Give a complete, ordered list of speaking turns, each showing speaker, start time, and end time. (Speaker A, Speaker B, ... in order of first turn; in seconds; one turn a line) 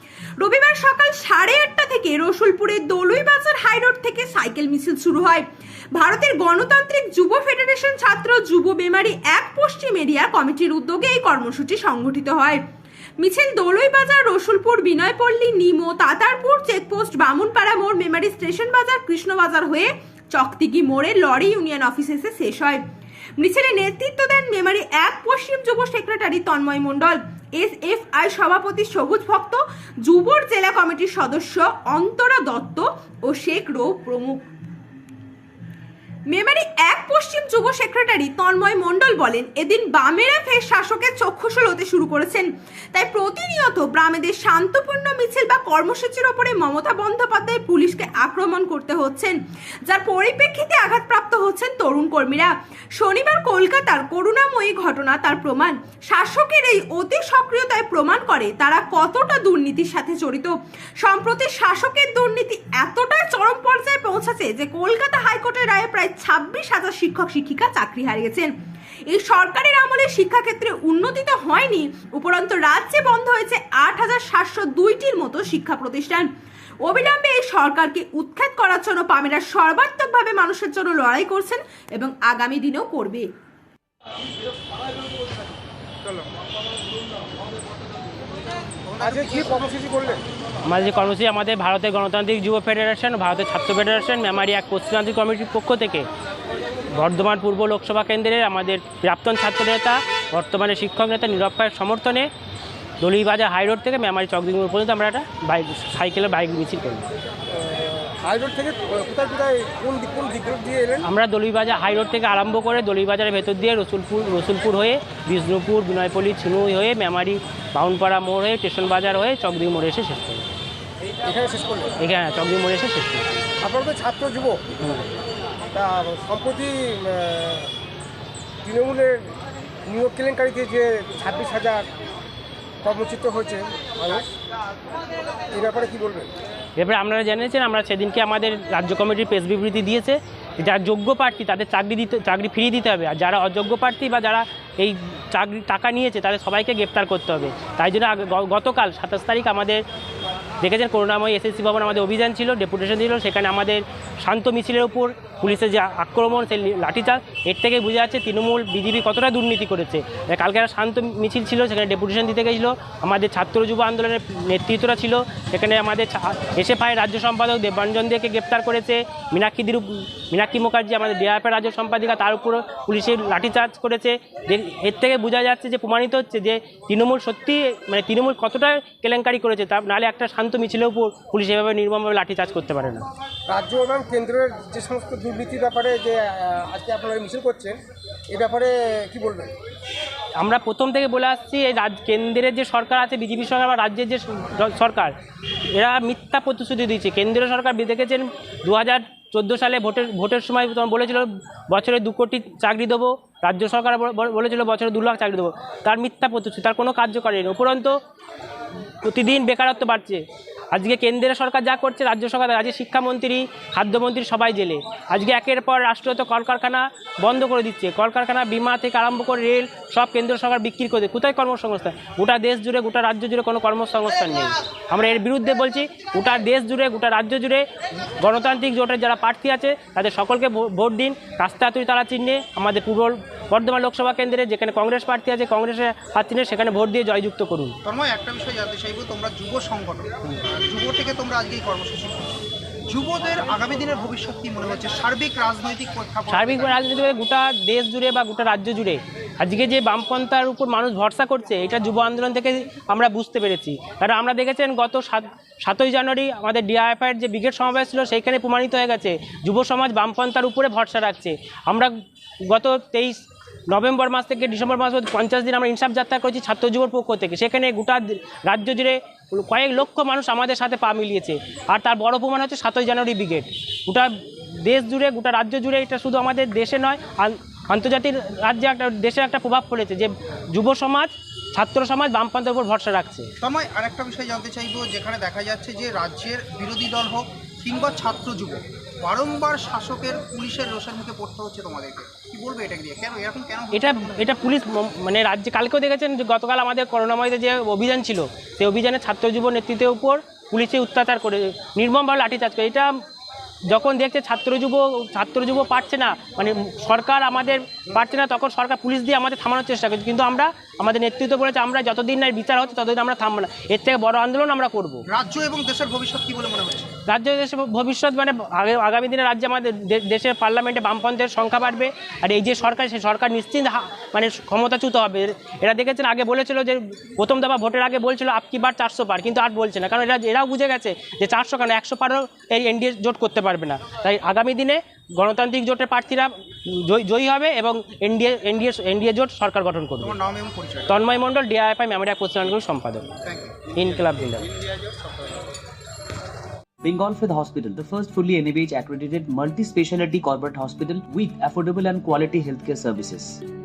Speaker A: 0.4-5.4
Speaker A: 6.0-12.6
Speaker A: 13.2-22.8
Speaker A: 23.4-34.5
Speaker A: 36.3-49.4
Speaker A: 49.9-68.5
Speaker A: 69.1-76.3
Speaker A: 76.8-83.3
Speaker B: 88.8-89.6
Speaker C: 89.0-90.2
Speaker D: 90.7-96.1
Speaker D: 96.9-102.3
Speaker D: 103.0-107.0
Speaker C: 107.5-111.1
Speaker D: 111.0-120.5
Speaker C: 121.2-121.9
Speaker D: 122.0-123.4
Speaker C: 123.6-124.7
Speaker D: 124.8-125.1
Speaker C: 125.7-127.7
Speaker C: 128.6-129.3
Speaker C: 129.9-131.9
Speaker C: 132.8-134.3
Speaker C: 135.5-136.3
Speaker D: 136.8-149.8
Speaker D: 150.6-183.0
Speaker C: 183.5-187.8
Speaker C: 188.3-189.5
Speaker D: 190.4-195.1
Speaker D: 195.7-207.9
Speaker D: 209.0-227.7
Speaker D: 228.2-237.7
Speaker B: 237.8-246.8
Speaker D: 246.3-261.9
Speaker D: 262.5-263.2
Speaker D: 263.7-274.1
Speaker D: 274.6-283.3
Speaker B: 283.4-294.4
Speaker D: 293.7-302.9
Speaker D: 303.7-315.0
Speaker B: 315.1-316.9
Speaker D: 317.1-340.1
Speaker B: 340.0-341.0
Speaker D: 340.9-343.1
Speaker B: 343.2-345.5
Speaker D: 343.7-344.5
Speaker E: 346.8-353.4